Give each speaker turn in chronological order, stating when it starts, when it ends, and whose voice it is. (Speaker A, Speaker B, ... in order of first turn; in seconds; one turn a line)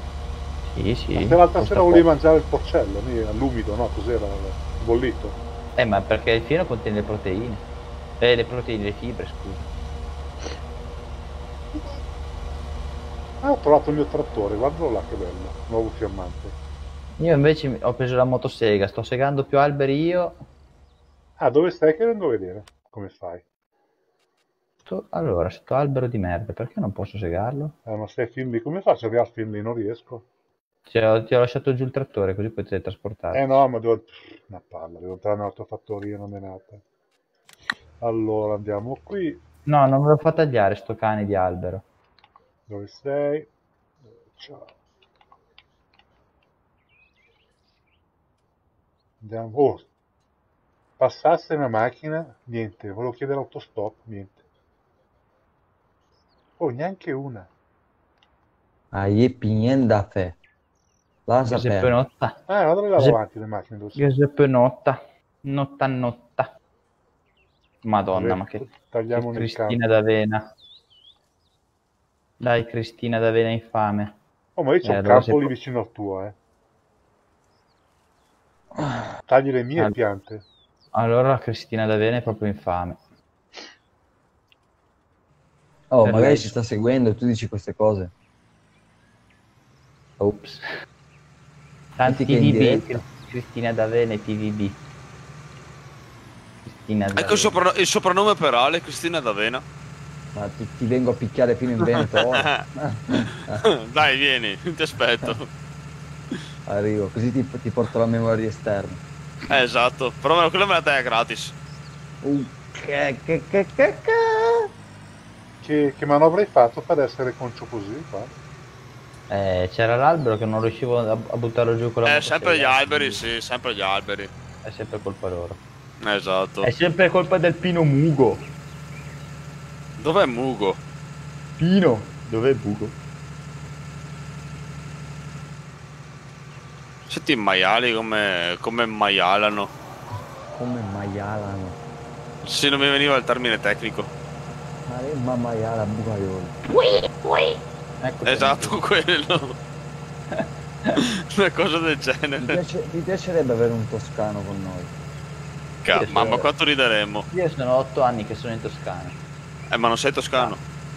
Speaker A: 0.7-2.0
Speaker B: 1.1-5.4
Speaker A: 5.8-7.6
Speaker A: 8.2-9.7
Speaker B: 13.4-16.6
Speaker A: 17.2-20.4
Speaker B: 21.4-23.4
Speaker A: 24.9-27.7
Speaker B: 27.9-30.2
Speaker A: 30.9-33.6
Speaker B: 33.3-36.8
Speaker B: 38.0-39.4
Speaker A: 39.7-41.8
Speaker B: 42.7-43.5
Speaker B: 44.3-44.7
Speaker B: 49.2-49.9
Speaker B: 51.0-54.4
Speaker B: 56.6-57.5
Speaker C: 58.9-60.4
Speaker C: 61.3-61.9
Speaker A: 61.5-62.4
Speaker B: 62.5-64.0
Speaker A: 64.0-66.5
Speaker A: 67.8-70.5
Speaker B: 68.1-69.8
Speaker A: 72.4-74.1
Speaker B: 74.5-76.4
Speaker A: 74.8-75.5
Speaker C: 78.8-79.0
Speaker B: 79.3-80.4
Speaker A: 80.9-83.0
Speaker C: 85.9-88.1
Speaker A: 86.0-86.5
Speaker A: 90.2-90.6
Speaker A: 92.0-94.8
Speaker C: 92.0-92.9
Speaker A: 96.6-97.5
Speaker D: 97.2-99.6
Speaker C: 100.3-103.6
Speaker D: 101.9-102.6
Speaker D: 103.6-105.5
Speaker C: 106.7-109.0
Speaker D: 109.5-111.5
Speaker C: 112.2-114.7
Speaker B: 115.6-118.3
Speaker A: 119.3-123.2
Speaker D: 122.0-124.3
Speaker A: 124.6-125.6
Speaker D: 126.0-126.7
Speaker A: 126.6-128.5
Speaker D: 130.0-130.8
Speaker A: 131.6-132.9
Speaker D: 137.1-139.7
Speaker C: 140.5-141.8
Speaker D: 142.4-144.1
Speaker C: 144.9-146.5
Speaker A: 148.0-148.8
Speaker D: 148.3-149.6
Speaker A: 150.3-151.0
Speaker D: 151.0-152.6
Speaker C: 152.4-154.9
Speaker D: 155.8-157.3
Speaker A: 155.9-156.5
Speaker A: 157.3-159.2
Speaker D: 159.7-160.6